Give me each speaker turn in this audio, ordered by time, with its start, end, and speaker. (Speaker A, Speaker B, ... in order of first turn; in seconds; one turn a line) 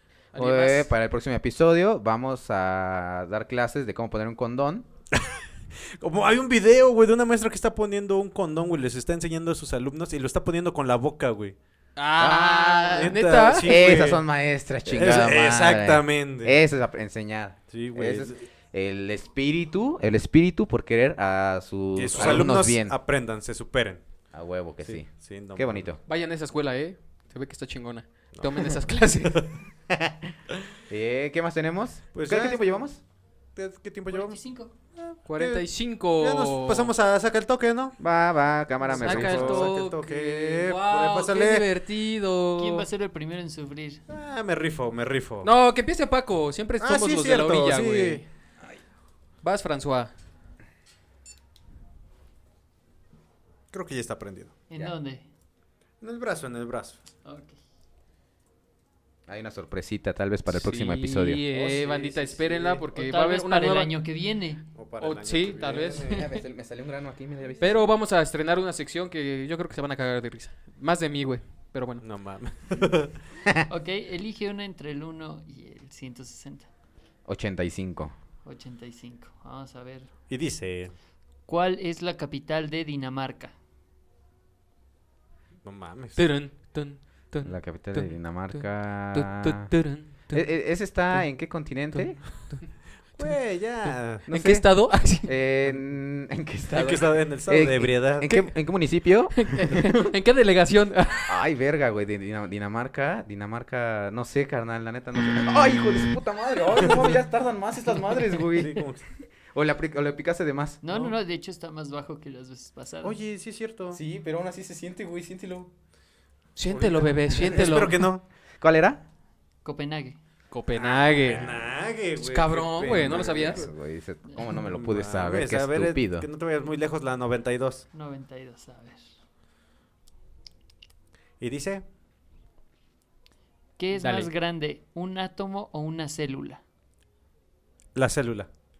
Speaker A: 0.3-0.9
Speaker B: 0.4-4.9
Speaker C: 5.1-11.6
Speaker A: 12.0-13.8
Speaker B: 12.2-22.9
Speaker C: 13.0-14.2
Speaker C: 14.8-16.6
Speaker C: 17.7-18.4
Speaker C: 21.9-24.0
Speaker B: 24.3-26.0
Speaker C: 24.8-25.9
Speaker A: 26.1-29.5
Speaker C: 28.3-29.5
Speaker B: 29.9-30.3
Speaker B: 30.9-33.0
Speaker C: 32.1-32.8
Speaker C: 33.5-34.4
Speaker D: 34.1-34.7
Speaker C: 35.0-35.7
Speaker A: 35.2-36.9
Speaker C: 36.2-38.0
Speaker B: 38.0-39.7
Speaker C: 38.9-41.7
Speaker A: 38.9-42.9
Speaker D: 42.6-44.0
Speaker C: 44.1-45.5
Speaker A: 45.4-48.2
Speaker C: 46.8-48.2
Speaker A: 49.4-50.1
Speaker C: 53.7-54.5
Speaker D: 54.7-55.3
Speaker C: 56.0-57.0
Speaker D: 57.2-57.6
Speaker B: 59.3-61.4
Speaker A: 60.5-63.9
Speaker C: 61.5-62.9
Speaker D: 62.9-64.7
Speaker C: 64.8-66.3
Speaker A: 65.0-66.1
Speaker B: 66.0-67.7
Speaker D: 66.1-66.4
Speaker A: 67.6-72.0
Speaker C: 72.0-73.2
Speaker D: 73.7-76.7
Speaker B: 77.3-78.1
Speaker D: 78.5-80.1
Speaker C: 80.3-80.9
Speaker D: 81.5-83.5
Speaker C: 85.6-86.2
Speaker A: 86.2-90.5
Speaker B: 87.5-89.7
Speaker B: 90.3-92.2
Speaker A: 91.9-93.3
Speaker C: 93.2-94.2
Speaker A: 93.8-95.3
Speaker B: 94.3-94.7
Speaker B: 95.2-99.6
Speaker C: 96.7-98.3
Speaker A: 98.2-98.5
Speaker A: 99.4-101.3
Speaker B: 101.3-108.8
Speaker C: 108.6-109.1
Speaker B: 109.5-110.8
Speaker D: 110.8-113.2
Speaker C: 113.0-114.0
Speaker B: 113.9-115.7
Speaker A: 116.6-118.1
Speaker C: 116.7-118.2
Speaker B: 118.6-119.0
Speaker D: 119.7-120.2
Speaker A: 120.5-121.6
Speaker C: 120.7-123.7
Speaker A: 122.2-123.7
Speaker B: 123.0-126.3
Speaker C: 124.7-127.9
Speaker D: 127.9-129.1
Speaker C: 131.4-131.8
Speaker D: 133.8-136.6
Speaker A: 133.9-134.3
Speaker C: 137.9-138.5